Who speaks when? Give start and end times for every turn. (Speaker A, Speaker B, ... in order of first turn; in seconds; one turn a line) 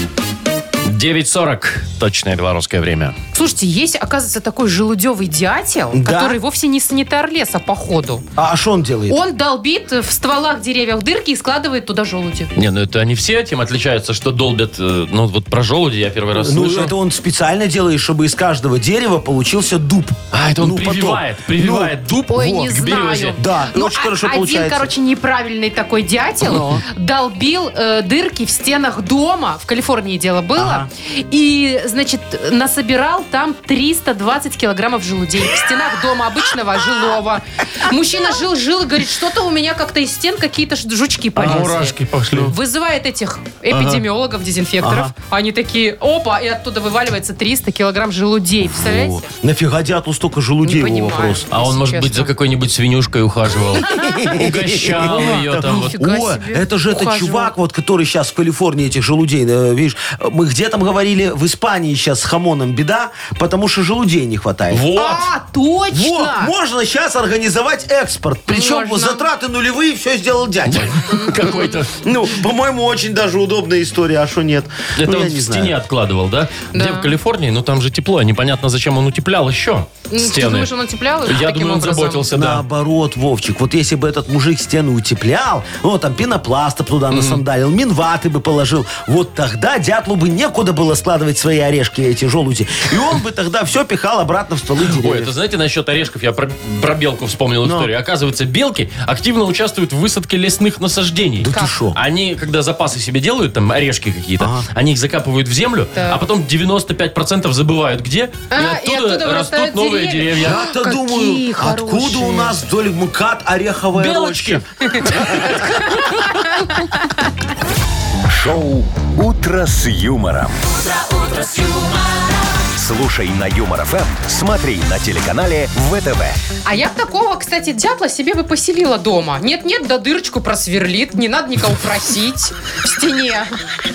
Speaker A: 0.8-3.2
Speaker B: 3.3-8.2
Speaker C: 5.9-6.4
Speaker C: 8.4-9.2
Speaker B: 9.1-12.5
Speaker A: 12.5-16.9
Speaker C: 16.3-22.0
Speaker A: 20.3-23.4
Speaker B: 22.3-49.2
Speaker C: 23.4-24.9
Speaker C: 26.4-26.8
Speaker C: 30.6-30.9
Speaker A: 41.4-42.5
Speaker A: 43.7-44.0
Speaker C: 44.8-45.1
Speaker C: 48.6-51.5
Speaker B: 50.6-52.3
Speaker A: 51.5-55.9
Speaker C: 53.9-64.9
Speaker B: 54.0-54.2
Speaker B: 54.9-57.5
Speaker A: 64.7-65.2
Speaker B: 64.9-66.5
Speaker C: 65.9-71.0
Speaker B: 68.5-69.2
Speaker A: 70.7-72.0
Speaker B: 71.1-71.8
Speaker C: 72.0-75.7
Speaker A: 75.0-80.7
Speaker B: 76.7-77.1
Speaker B: 80.1-82.3
Speaker A: 81.2-82.6
Speaker C: 82.3-95.3
Speaker A: 87.1-87.4
Speaker A: 94.9-110.6
Speaker C: 97.6-97.9
Speaker C: 101.4-102.0
Speaker C: 104.4-104.7
Speaker B: 108.5-112.6
Speaker C: 110.4-115.6
Speaker A: 113.9-116.2
Speaker B: 116.3-116.8
Speaker D: 118.3-120.6
Speaker E: 120.7-122.7
Speaker D: 122.8-126.4
Speaker B: 126.7-133.5